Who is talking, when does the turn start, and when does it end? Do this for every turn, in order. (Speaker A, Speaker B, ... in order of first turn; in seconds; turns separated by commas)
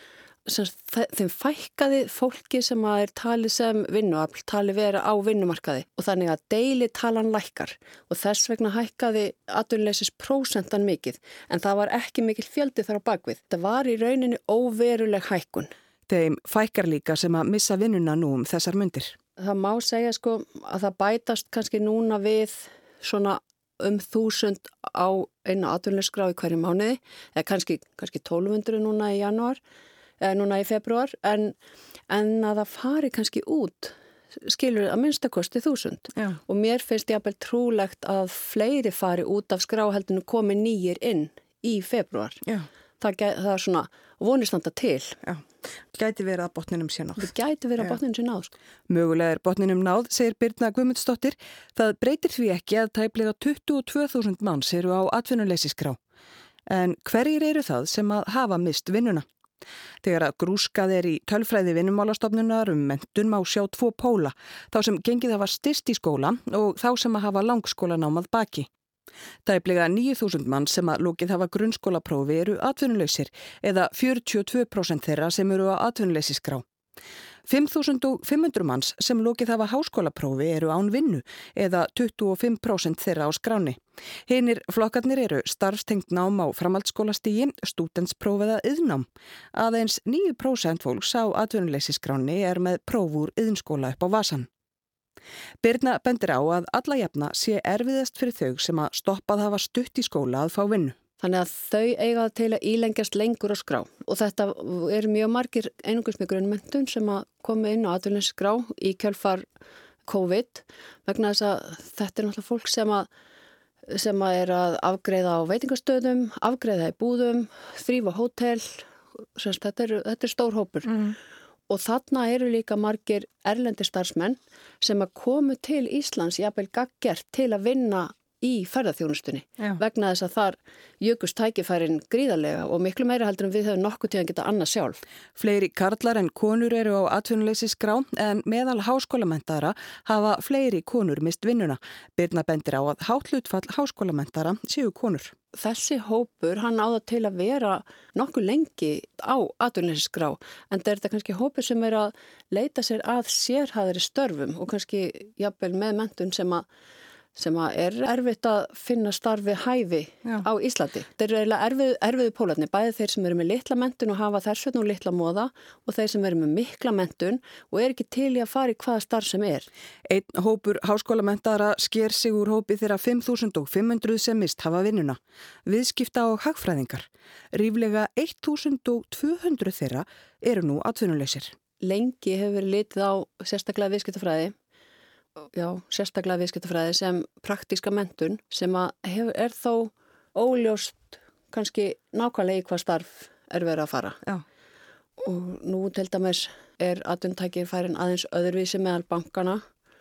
Speaker A: 0.5-15.7, Speaker B: 16.1-19.1, Speaker A: 19.4-29.6, Speaker A: 30.2-31.5, Speaker A: 32.1-42.4, Speaker B: 36.1-36.4, Speaker A: 43.0-45.2, Speaker B: 45.2-48.0, Speaker A: 47.2-48.5, Speaker B: 48.9-56.0, Speaker B: 56.7-59.2, Speaker B: 60.0-68.7, Speaker B: 69.4-76.6, Speaker B: 77.5-94.5, Speaker B: 95.6-101.0, Speaker A: 101.2-109.5, Speaker A: 110.1-113.1, Speaker A: 113.9-120.9, Speaker B: 120.8-121.2, Speaker A: 121.7-135.0, Speaker B: 135.3-145.3, Speaker A: 145.5-156.7, Speaker A: 157.3-169.7, Speaker B: 170.1-181.5, Speaker A: 181.8-184.5, Speaker A: 185.5-194.2, Speaker A: 195.2-199.6